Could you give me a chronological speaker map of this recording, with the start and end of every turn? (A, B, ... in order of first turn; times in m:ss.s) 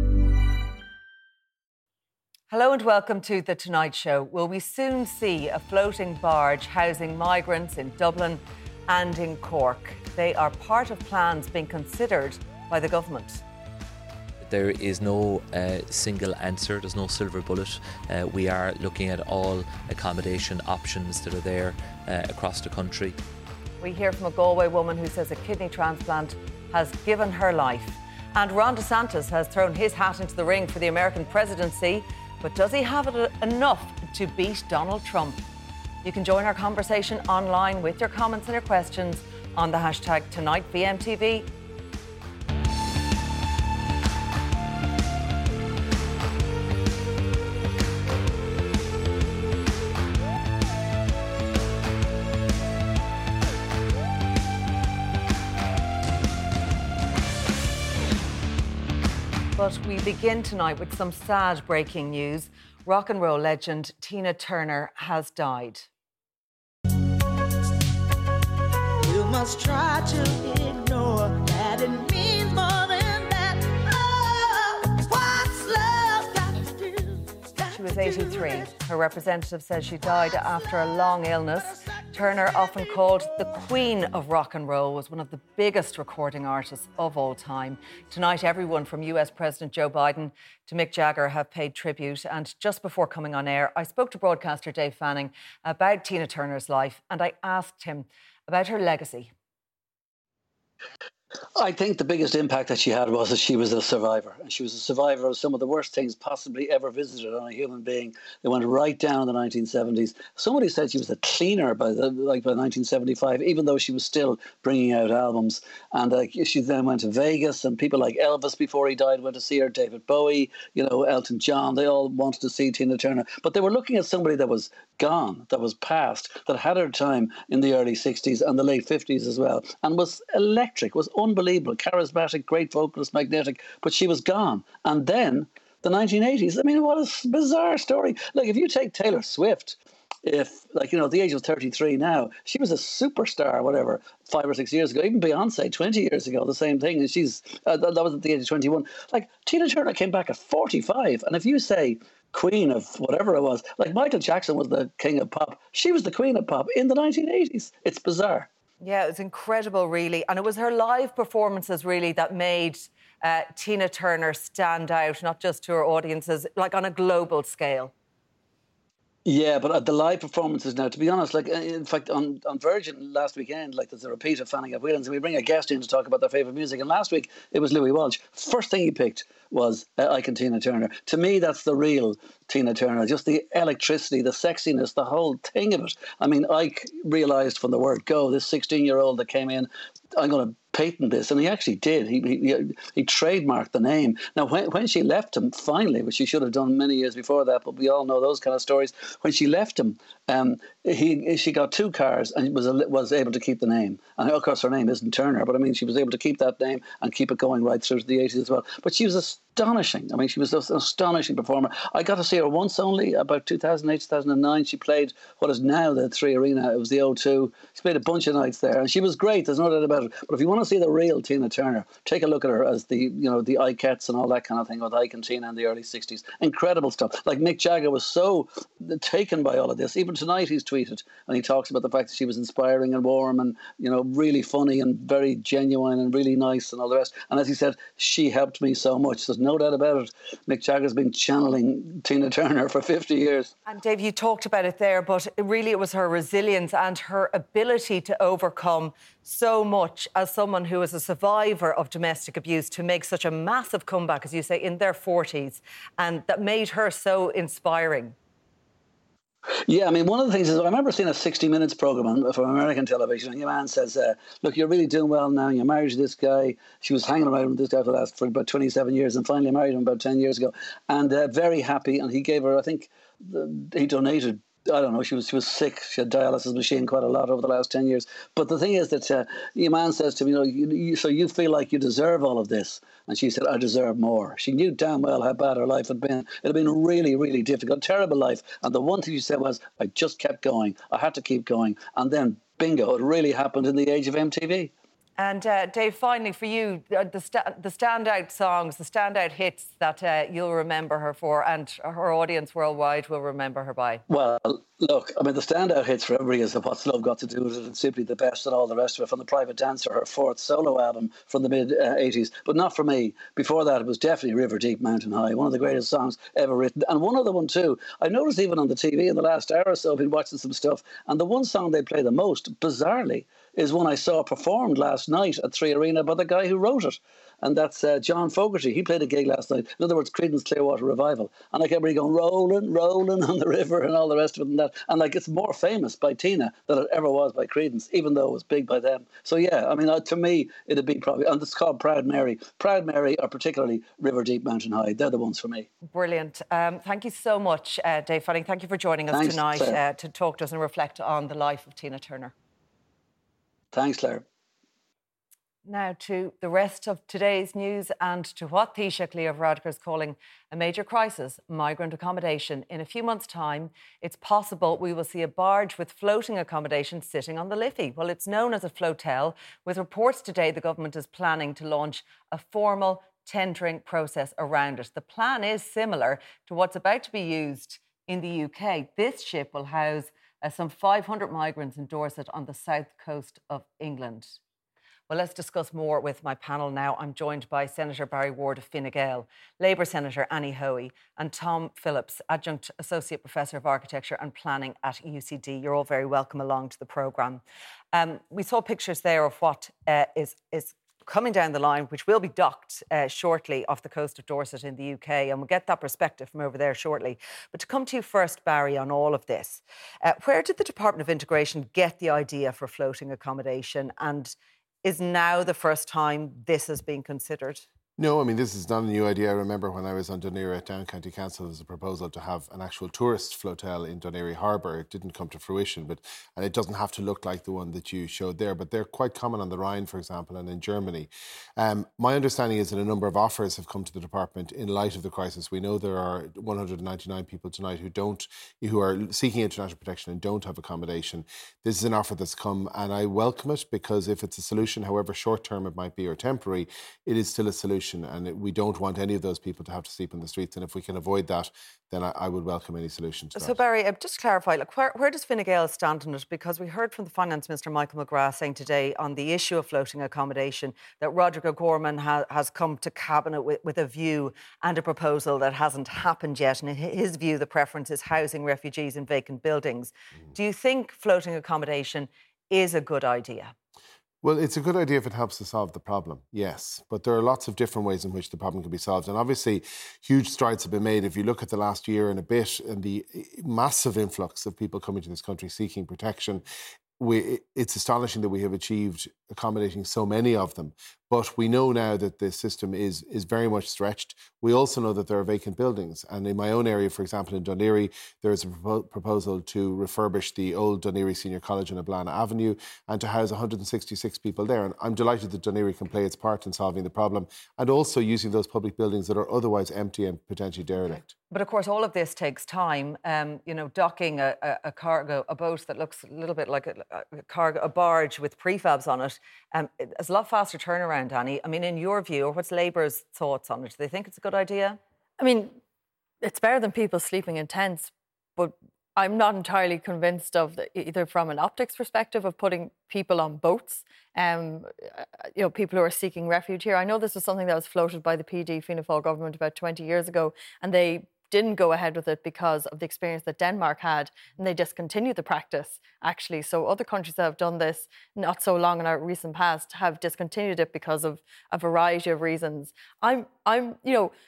0:02.5-0:13.4 A
0:14.4-0:23.2 B
0:23.8-0:35.4 A
0:36.0-0:41.5 A
0:59.6-1:05.9 A
1:09.0-1:18.8 C
1:17.8-1:39.3 A
1:20.3-1:20.9 C
1:21.6-1:23.4 C
1:41.6-2:38.5 D
2:38.8-2:47.9 A
2:49.3-4:03.5 D
4:03.7-4:18.2 A
4:19.7-4:54.7 D
4:55.2-5:04.0 A
5:04.1-5:45.7 D
5:45.9-5:52.3 A
5:49.1-5:49.8 D
5:53.7-5:54.2 D
5:55.6-6:24.4 A
6:25.1-6:57.6 A
6:58.0-7:33.6 E
7:33.4-7:53.5 A
7:54.2-8:06.4 E
8:07.0-8:31.1 E
8:31.3-8:44.8 A
8:45.2-8:45.6 F
8:46.2-9:14.1 F